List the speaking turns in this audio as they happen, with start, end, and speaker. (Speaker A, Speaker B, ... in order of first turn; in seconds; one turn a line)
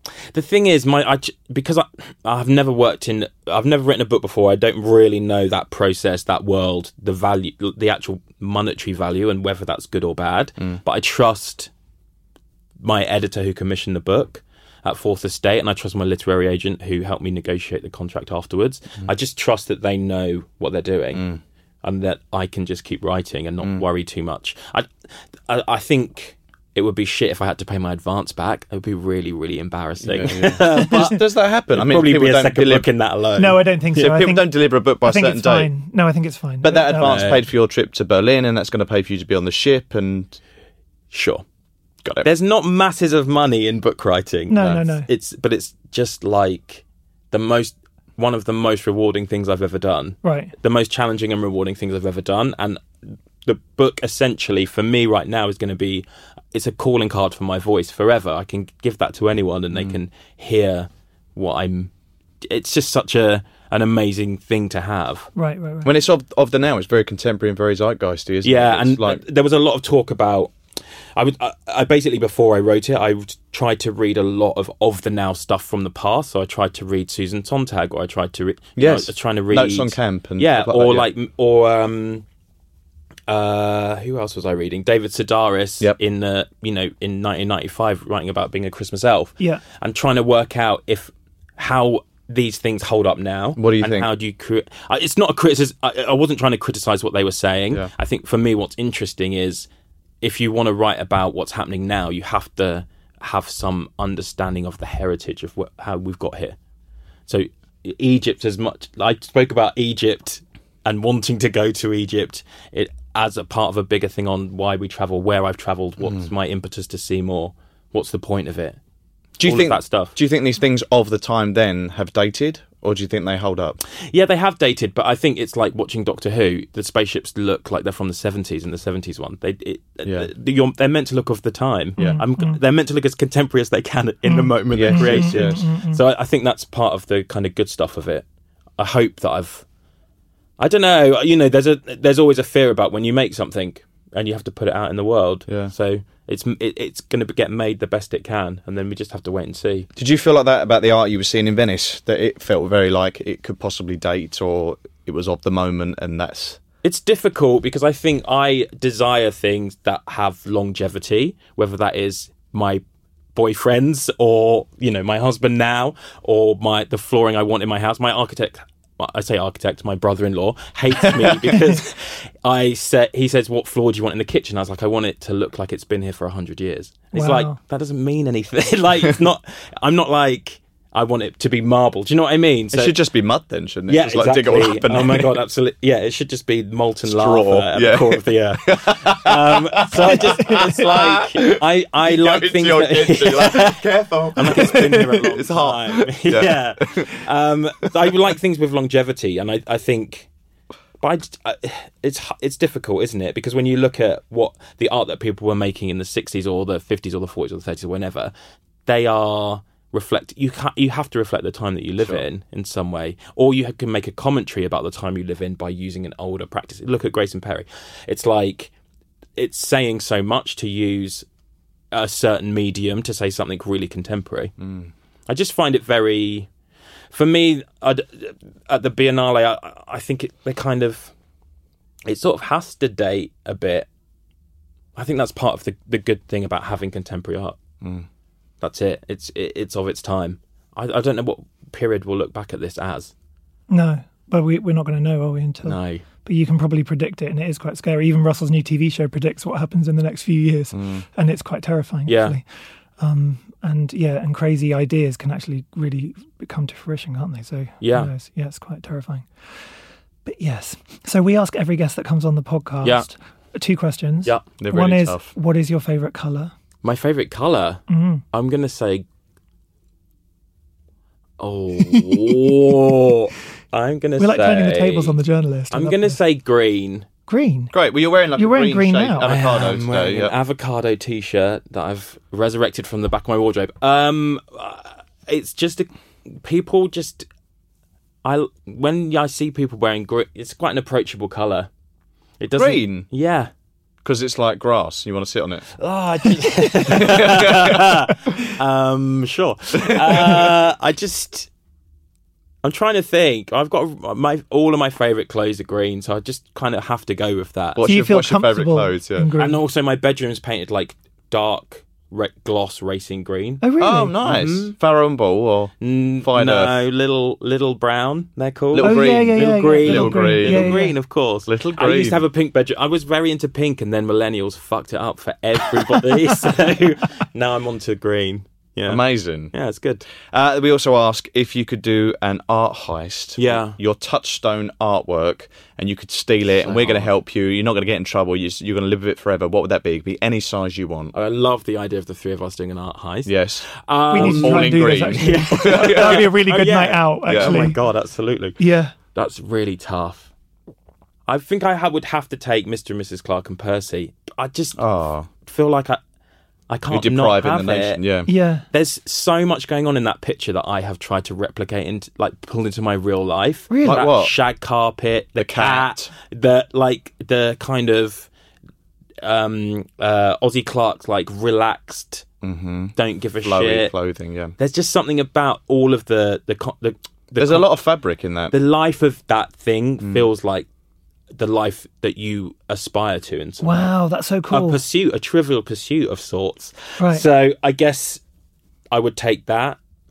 Speaker A: 0.3-11.7
Speaker A: 12.8-21.2
Speaker B: 21.1-21.4
Speaker A: 21.8-24.9
Speaker A: 25.5-31.2
Speaker B: 30.1-32.9
Speaker A: 31.7-34.1
Speaker C: 33.4-37.4
Speaker B: 34.0-35.7
Speaker B: 36.6-40.4
Speaker A: 37.0-37.4
Speaker A: 41.1-41.4
Speaker A: 42.2-61.9
Speaker C: 44.5-45.1
Speaker C: 50.2-50.5
Speaker A: 62.4-65.3
Speaker C: 65.3-66.0
Speaker B: 65.8-69.2
Speaker A: 68.4-70.5
Speaker A: 71.2-82.2
Speaker B: 78.8-81.1
Speaker A: 83.3-99.7
Speaker B: 93.6-94.1
Speaker A: 100.2-106.6
Speaker A: 107.3-118.8
Speaker B: 116.0-116.3
Speaker B: 119.4-123.8
Speaker A: 119.4-120.2
Speaker A: 124.0-138.2
Speaker B: 130.0-130.3
Speaker B: 132.0-132.2
Speaker C: 132.0-132.6
Speaker C: 134.3-136.0
Speaker B: 134.7-135.6
Speaker A: 138.8-139.6
Speaker A: 140.6-149.9
Speaker B: 149.9-156.6
Speaker A: 156.8-162.8
Speaker A: 163.3-182.9
Speaker B: 171.2-171.5
Speaker C: 177.1-177.6
Speaker B: 182.7-185.3
Speaker A: 183.9-193.8
Speaker B: 187.0-197.2
Speaker A: 194.3-200.3
Speaker A: 201.0-208.3
Speaker A: 208.8-218.7
Speaker A: 219.3-221.2
Speaker A: 221.9-224.5
Speaker B: 224.6-224.9
Speaker A: 225.3-226.5
Speaker A: 227.1-231.1
Speaker A: 232.1-233.9
Speaker A: 234.9-237.6
Speaker A: 238.6-243.1
Speaker C: 243.7-252.4
Speaker A: 245.6-246.0
Speaker B: 250.7-251.0
Speaker A: 252.1-252.4
Speaker C: 253.0-259.3
Speaker A: 257.8-258.1
Speaker C: 260.2-266.5
Speaker A: 262.8-263.1
Speaker B: 264.6-265.3
Speaker A: 266.8-269.1
Speaker C: 267.9-268.2
Speaker A: 271.4-275.2
Speaker C: 274.2-276.2
Speaker A: 275.7-277.1
Speaker C: 277.3-277.7
Speaker B: 277.7-280.3
Speaker C: 278.4-279.4
Speaker A: 279.2-287.3
Speaker A: 288.2-291.7
Speaker A: 292.4-293.5
Speaker B: 292.5-293.1
Speaker B: 294.0-295.6
Speaker A: 295.8-301.5
Speaker B: 297.0-297.8
Speaker A: 302.6-307.9
Speaker B: 307.8-309.3
Speaker C: 307.8-309.6
Speaker A: 309.3-313.6
Speaker C: 313.6-314.3
Speaker B: 313.8-316.7
Speaker A: 314.2-314.7
Speaker A: 315.8-330.0
Speaker B: 318.7-320.9
Speaker C: 318.8-320.9
Speaker B: 321.4-322.2
Speaker B: 328.9-329.5
Speaker B: 330.3-341.1
Speaker A: 333.4-333.8
Speaker A: 336.6-337.1
Speaker A: 341.1-348.6
Speaker B: 343.2-346.3
Speaker C: 344.1-347.8
Speaker B: 347.2-347.7
Speaker C: 348.6-348.9
Speaker A: 349.1-350.3
Speaker A: 351.2-354.8
Speaker B: 354.8-355.3
Speaker A: 355.3-356.0
Speaker A: 356.7-358.1
Speaker B: 356.9-358.3
Speaker C: 358.3-358.6
Speaker A: 358.7-368.3
Speaker C: 363.7-364.1
Speaker B: 363.8-364.3
Speaker B: 365.4-366.1
Speaker A: 369.2-372.2
Speaker B: 372.4-374.5
Speaker A: 372.9-373.9
Speaker A: 374.6-377.7
Speaker B: 377.4-378.5
Speaker A: 378.5-380.7
Speaker B: 380.0-380.3
Speaker A: 381.3-383.9
Speaker C: 383.6-384.8
Speaker A: 384.5-388.2
Speaker C: 387.0-387.2
Speaker A: 388.9-389.8